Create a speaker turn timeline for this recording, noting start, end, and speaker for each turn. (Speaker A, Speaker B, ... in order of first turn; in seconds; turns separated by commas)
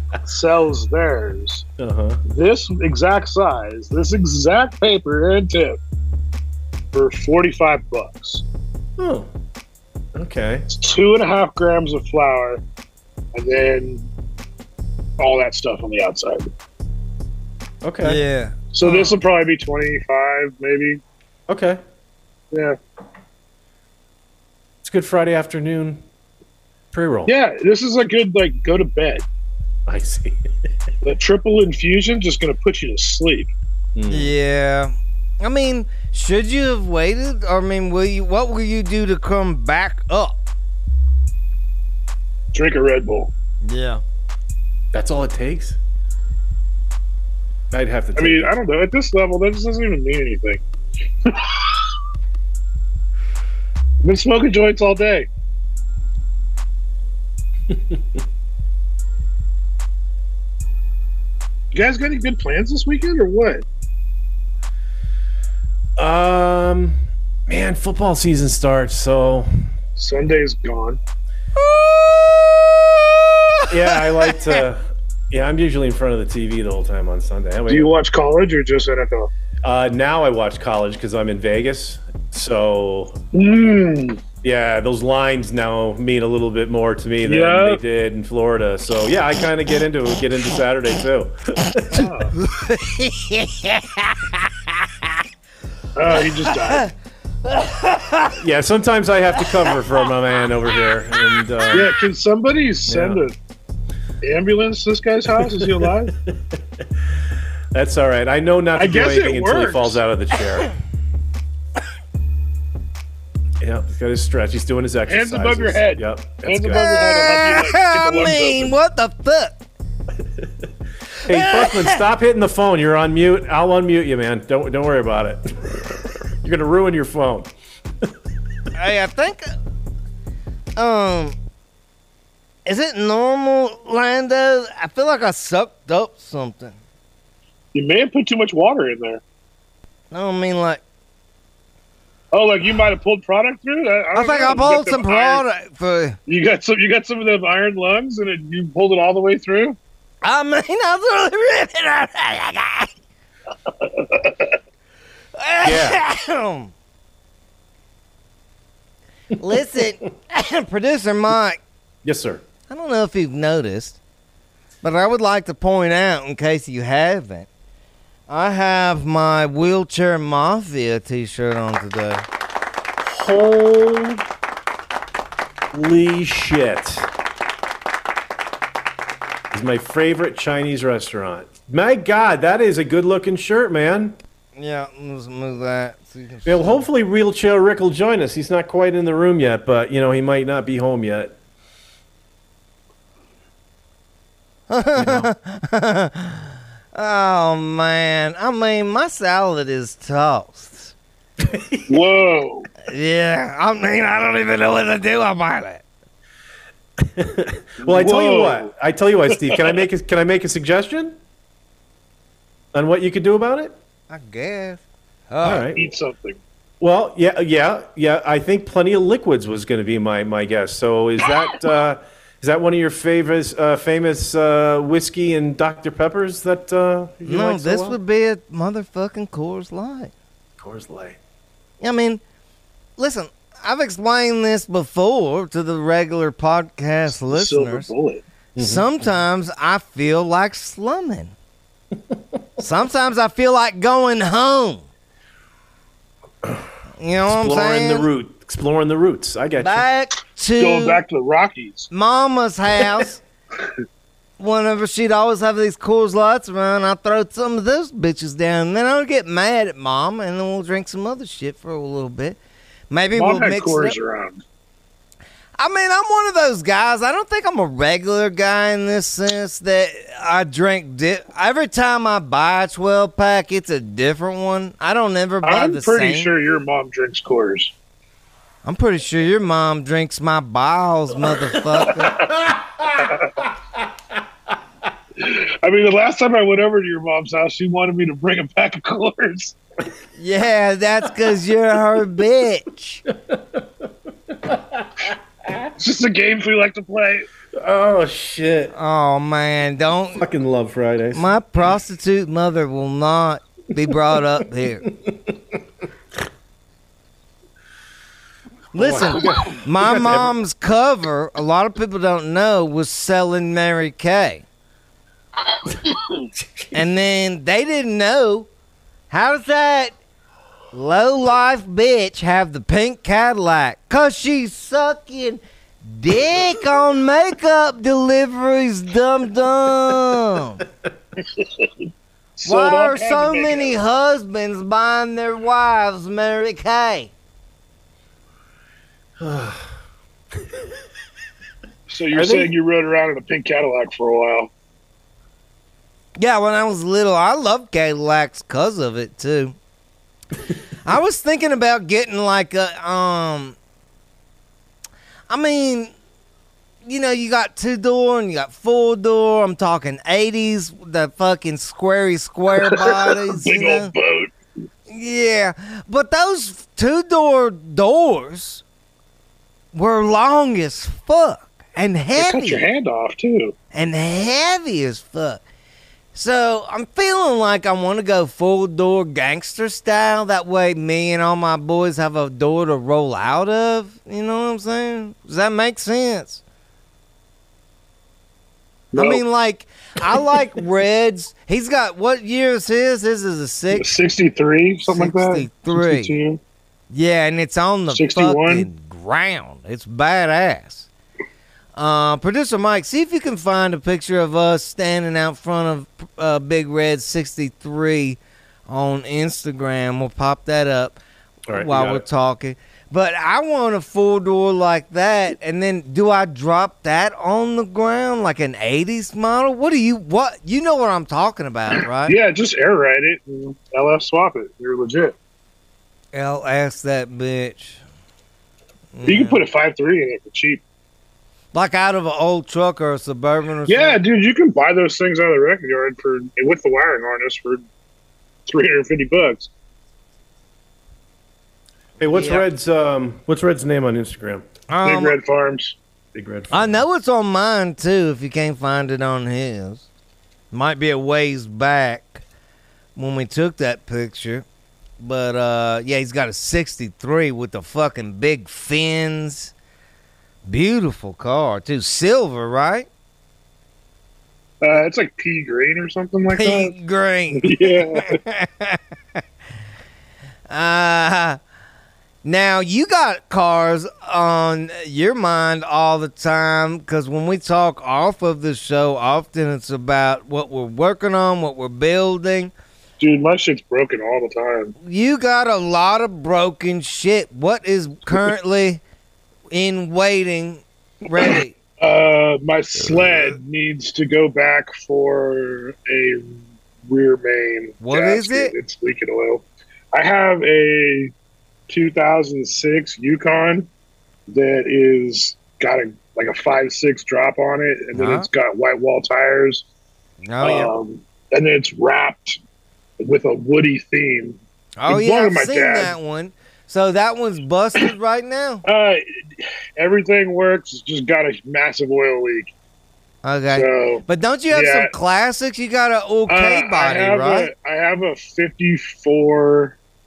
Speaker A: 0.2-1.6, Speaker B: 1.8-2.2, Speaker A: 2.2-5.8, Speaker A: 6.9-8.4, Speaker B: 9.0-9.3, Speaker B: 10.1-10.7, Speaker A: 10.7-12.6, Speaker A: 13.3-14.1, Speaker A: 15.2-16.5, Speaker B: 17.8-18.2, Speaker C: 18.0-19.1, Speaker A: 18.7-21.0, Speaker B: 21.5-21.8, Speaker A: 22.5-22.8, Speaker B: 24.8-26.0, Speaker B: 26.9-27.3, Speaker A: 27.3-29.2, Speaker B: 29.9-30.5, Speaker A: 31.0-33.5, Speaker B: 33.9-34.3, Speaker C: 34.1-40.4, Speaker A: 42.5-43.3, Speaker C: 43.6-44.0, Speaker B: 44.9-45.8, Speaker B: 47.7-48.5, Speaker A: 48.1-50.6, Speaker A: 51.2-51.6, Speaker A: 54.0-55.3, Speaker B: 57.7-58.2, Speaker A: 61.7-63.6, Speaker B: 66.0-69.5, Speaker A: 70.0-71.0, Speaker C: 71.6-72.9, Speaker C: 73.5-74.6, Speaker B: 73.7-77.9, Speaker A: 77.7-79.3, Speaker B: 79.6-83.2, Speaker A: 83.3-84.2, Speaker B: 84.4-92.1, Speaker A: 87.2-87.8, Speaker A: 91.9-92.3, Speaker C: 92.4-95.1, Speaker A: 96.0-96.8, Speaker C: 96.2-96.9, Speaker C: 97.4-98.4, Speaker B: 98.4-101.9, Speaker A: 101.7-103.3, Speaker B: 102.9-103.2, Speaker A: 104.2-106.1, Speaker B: 105.3-106.8, Speaker B: 107.7-110.7, Speaker A: 108.8-110.0, Speaker B: 113.6-116.8, Speaker A: 115.1-118.7, Speaker C: 116.7-119.5, Speaker B: 120.4-120.7, Speaker B: 121.2-127.5, Speaker C: 121.3-122.0, Speaker C: 128.7-129.5, Speaker C: 130.8-131.3, Speaker C: 132.7-136.8, Speaker A: 137.7-139.2, Speaker C: 140.1-140.8, Speaker A: 142.3-145.4, Speaker C: 144.1-146.2, Speaker A: 146.3-149.8, Speaker C: 150.2-152.9, Speaker A: 153.8-154.5, Speaker C: 155.3-156.7, Speaker B: 155.6-156.0, Speaker C: 159.3-161.6, Speaker B: 162.0-162.4, Speaker C: 162.7-164.0, Speaker C: 164.8-167.5, Speaker C: 168.3-172.2, Speaker B: 173.0-174.2, Speaker B: 175.7-177.1, Speaker B: 179.5-184.2, Speaker C: 184.6-186.8, Speaker B: 186.4-191.3, Speaker C: 194.7-200.9, Speaker B: 194.9-195.3, Speaker B: 201.4-202.0, Speaker A: 201.9-202.7, Speaker C: 202.9-205.8, Speaker B: 207.0-211.2, Speaker A: 207.8-208.7, Speaker B: 212.7-213.7, Speaker C: 214.1-215.7, Speaker B: 215.4-215.8, Speaker A: 215.7-216.4, Speaker B: 216.8-228.0, Speaker C: 227.2-230.1, Speaker B: 230.6-231.2, Speaker C: 231.8-232.2, Speaker C: 233.0-237.9, Speaker A: 237.3-238.2, Speaker B: 238.6-239.1, Speaker C: 238.6-241.3, Speaker C: 242.6-244.8, Speaker C: 247.0-248.1, Speaker B: 247.2-249.9, Speaker C: 249.6-251.0, Speaker A: 250.6-251.9, Speaker C: 251.9-253.2, Speaker C: 254.4-262.4, Speaker C: 262.9-263.9, Speaker A: 263.1-264.4, Speaker C: 265.6-276.3, Speaker A: 275.4-277.7, Speaker C: 278.6-282.2, Speaker B: 281.8-283.1, Speaker A: 285.2-289.6, Speaker C: 290.2-293.0, Speaker B: 293.1-295.7, Speaker A: 295.8-297.3, Speaker B: 297.5-298.7, Speaker C: 298.7-300.2, Speaker B: 300.1-301.3, Speaker C: 301.1-304.9, Speaker B: 304.9-305.6, Speaker B: 308.7-310.3, Speaker C: 308.7-314.4, Speaker B: 316.4-316.7, Speaker C: 316.7-318.5, Speaker C: 319.1-319.9, Speaker C: 320.7-330.6, Speaker A: 332.4-333.8, Speaker C: 332.4-337.1, Speaker B: 339.2-339.7, Speaker A: 341.9-344.5, Speaker B: 342.1-342.5, Speaker C: 346.2-349.6, Speaker C: 350.8-353.6, Speaker C: 355.3-355.9, Speaker C: 356.8-363.9, Speaker A: 362.6-364.3, Speaker C: 364.9-368.6, Speaker C: 369.7-372.6, Speaker A: 372.1-373.5, Speaker C: 373.7-375.4, Speaker C: 376.1-386.4, Speaker A: 388.9-389.2, Speaker C: 388.9-393.9, Speaker A: 393.7-396.4, Speaker C: 394.9-396.1, Speaker C: 396.9-400.9, Speaker A: 397.9-398.7, Speaker C: 401.8-411.0, Speaker B: 411.5-412.0, Speaker C: 411.5-422.1, Speaker A: 422.1-425.1, Speaker C: 426.1-427.8, Speaker C: 428.9-429.4, Speaker A: 429.0-430.6, Speaker C: 431.5-434.0, Speaker A: 433.7-437.6, Speaker A: 438.5-439.5, Speaker B: 442.0-444.5, Speaker C: 442.1-442.4, Speaker C: 444.7-445.2, Speaker A: 444.8-445.8, Speaker B: 446.1-446.8, Speaker C: 446.5-449.9, Speaker C: 450.5-452.2, Speaker C: 452.9-454.4, Speaker C: 455.0-459.5, Speaker C: 460.5-462.9, Speaker A: 464.6-466.7, Speaker C: 466.3-468.8, Speaker A: 467.3-468.2, Speaker C: 470.5-471.4, Speaker C: 472.2-482.5, Speaker A: 483.0-484.7, Speaker C: 484.8-488.8, Speaker C: 489.5-491.5, Speaker A: 491.2-501.1, Speaker C: 497.8-498.5, Speaker A: 501.7-503.7, Speaker A: 504.3-509.6, Speaker C: 507.9-508.3, Speaker C: 510.2-510.7, Speaker A: 510.4-512.4, Speaker A: 513.0-515.9, Speaker C: 514.8-518.6, Speaker A: 518.6-519.0, Speaker A: 519.8-522.5, Speaker C: 523.2-527.5, Speaker A: 523.5-524.9, Speaker A: 526.3-529.8